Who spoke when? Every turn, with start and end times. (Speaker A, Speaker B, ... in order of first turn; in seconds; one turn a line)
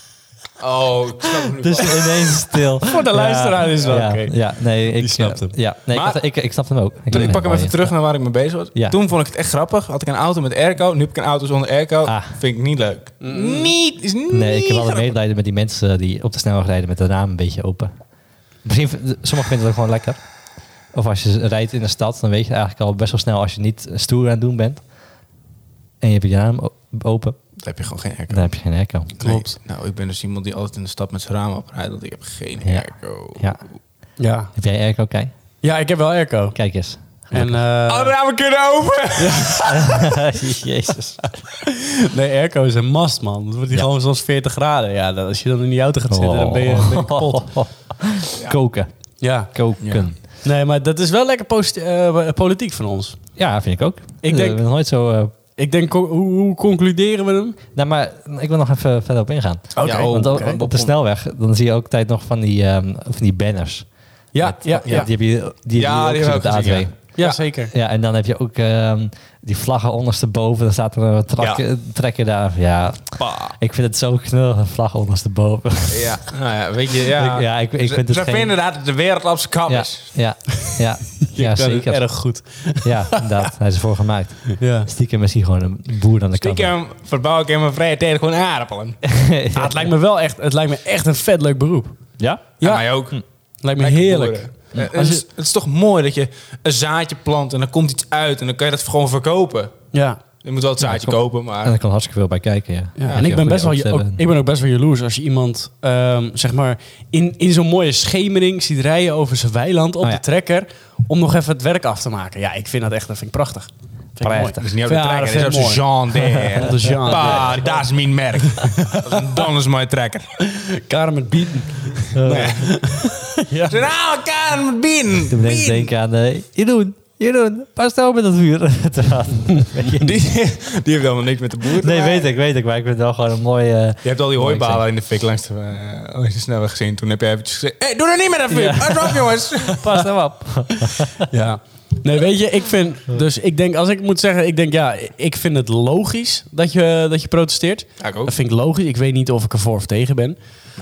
Speaker A: 0.6-2.4
Speaker B: 1.6-7.9
Speaker C: 2.8-5.5
Speaker A: 5.9-6.4
Speaker A: 7.1-15.1
Speaker B: 12.1-12.4
Speaker C: 13.2-13.7
Speaker B: 14.3-17.9
Speaker B: 18.6-20.2
Speaker B: 20.9-24.8
Speaker B: 26.0-27.4
Speaker A: 27.6-28.6
Speaker B: 28.3-29.2
Speaker A: 29.2-33.6
Speaker C: 29.2-29.5
Speaker B: 32.6-33.6
Speaker C: 34.2-34.5
Speaker B: 34.5-35.3
Speaker C: 35.6-36.6
Speaker B: 36.5-37.6
Speaker C: 37.3-38.2
Speaker A: 37.9-40.1
Speaker C: 39.2-39.7
Speaker B: 39.7-41.3
Speaker C: 41.6-47.5
Speaker B: 46.1-50.2
Speaker C: 49.2-49.5
Speaker A: 49.8-50.1
Speaker C: 50.3-53.2
Speaker B: 53.4-55.3
Speaker C: 54.2-54.6
Speaker C: 55.6-57.6
Speaker B: 57.8-76.2
Speaker C: 59.7-60.6
Speaker A: 59.8-60.9
Speaker C: 64.3-65.1
Speaker A: 64.8-65.1
Speaker A: 65.7-67.4
Speaker C: 67.2-67.7
Speaker A: 73.2-73.6
Speaker A: 75.9-80.3
Speaker B: 77.1-78.5
Speaker B: 79.7-82.3
Speaker C: 81.2-83.2
Speaker B: 82.8-86.7
Speaker C: 84.6-84.9
Speaker A: 86.4-89.1
Speaker B: 89.1-89.9
Speaker C: 89.5-92.0
Speaker B: 92.2-92.6
Speaker C: 92.6-92.9
Speaker A: 92.6-93.2
Speaker C: 93.6-95.2
Speaker A: 93.8-99.8
Speaker C: 99.9-100.2
Speaker A: 100.4-101.8
Speaker B: 100.8-104.2
Speaker C: 103.0-115.9
Speaker A: 103.1-103.3
Speaker B: 114.2-114.7
Speaker A: 114.6-120.3
Speaker C: 116.4-117.8
Speaker B: 117.1-117.4
Speaker C: 118.5-119.5
Speaker C: 120.4-123.8
Speaker B: 122.2-122.5
Speaker A: 122.2-122.7
Speaker A: 123.7-125.9
Speaker B: 125.3-130.1
Speaker A: 129.9-132.3
Speaker B: 131.8-134.8
Speaker A: 134.0-140.0
Speaker B: 138.5-141.3
Speaker C: 141.3-150.4
Speaker A: 148.0-148.3